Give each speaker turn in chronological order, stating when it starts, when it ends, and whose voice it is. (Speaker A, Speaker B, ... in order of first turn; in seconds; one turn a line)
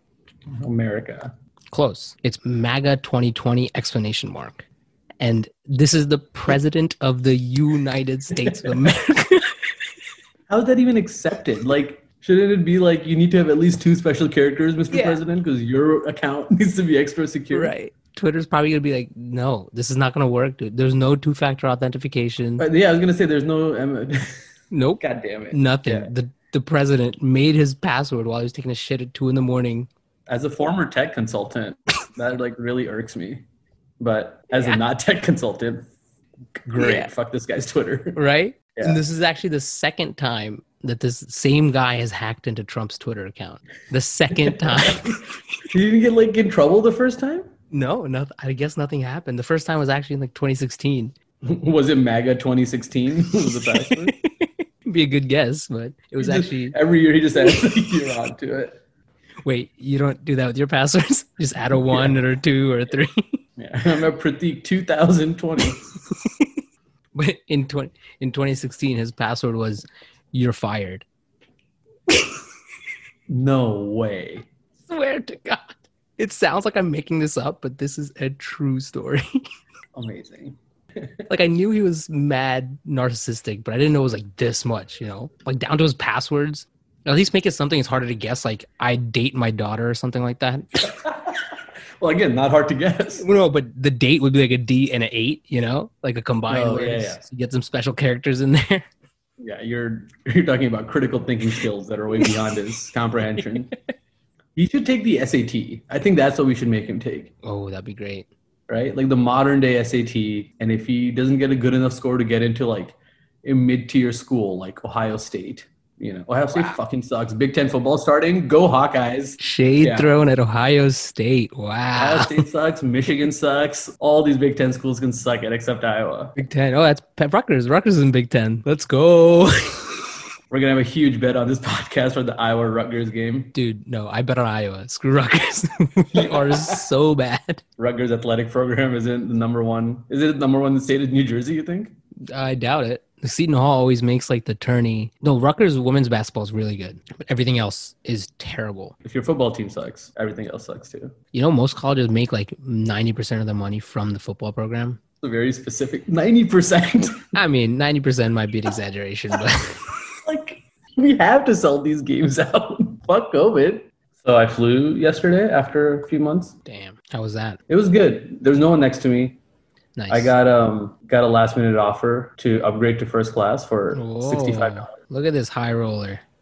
Speaker A: 0.5-1.3
Speaker B: 1.7-4.6
Speaker B: 5.2-9.5
Speaker A: 8.3-8.9
Speaker A: 10.5-17.7
Speaker B: 14.9-15.2
Speaker B: 17.5-22.6
Speaker A: 22.6-24.4
Speaker B: 24.7-29.9
Speaker A: 25.0-26.1
Speaker A: 30.3-33.4
Speaker A: 34.0-35.9
Speaker B: 34.5-34.8
Speaker A: 36.6-38.2
Speaker B: 36.8-37.1
Speaker B: 38.1-45.2
Speaker A: 38.8-39.0
Speaker A: 44.3-47.5
Speaker B: 47.7-51.1
Speaker A: 51.4-54.2
Speaker B: 53.5-56.8
Speaker A: 56.2-58.8
Speaker B: 59.5-63.4
Speaker A: 61.9-62.2
Speaker A: 63.6-65.8
Speaker B: 67.1-71.0
Speaker A: 73.3-74.5
Speaker B: 74.9-79.3
Speaker A: 79.9-80.5
Speaker B: 81.3-90.9
Speaker A: 90.8-91.5
Speaker A: 92.0-93.2
Speaker B: 93.2-98.9
Speaker A: 96.5-97.2
Speaker A: 99.4-103.7
Speaker A: 104.5-107.3
Speaker B: 107.4-108.3
Speaker A: 108.7-120.1
Speaker B: 119.4-122.4
Speaker A: 122.0-126.3
Speaker B: 126.3-130.1
Speaker A: 130.5-133.5
Speaker B: 133.5-137.6
Speaker A: 136.1-136.9
Speaker A: 137.8-141.9
Speaker B: 142.3-148.9
Speaker A: 149.0-151.1
Speaker B: 151.3-155.0
Speaker A: 155.2-157.3
Speaker B: 157.3-159.8
Speaker A: 160.2-166.5
Speaker B: 166.7-167.6
Speaker A: 167.7-169.4
Speaker B: 169.9-170.3
Speaker A: 170.1-174.9
Speaker B: 173.9-176.2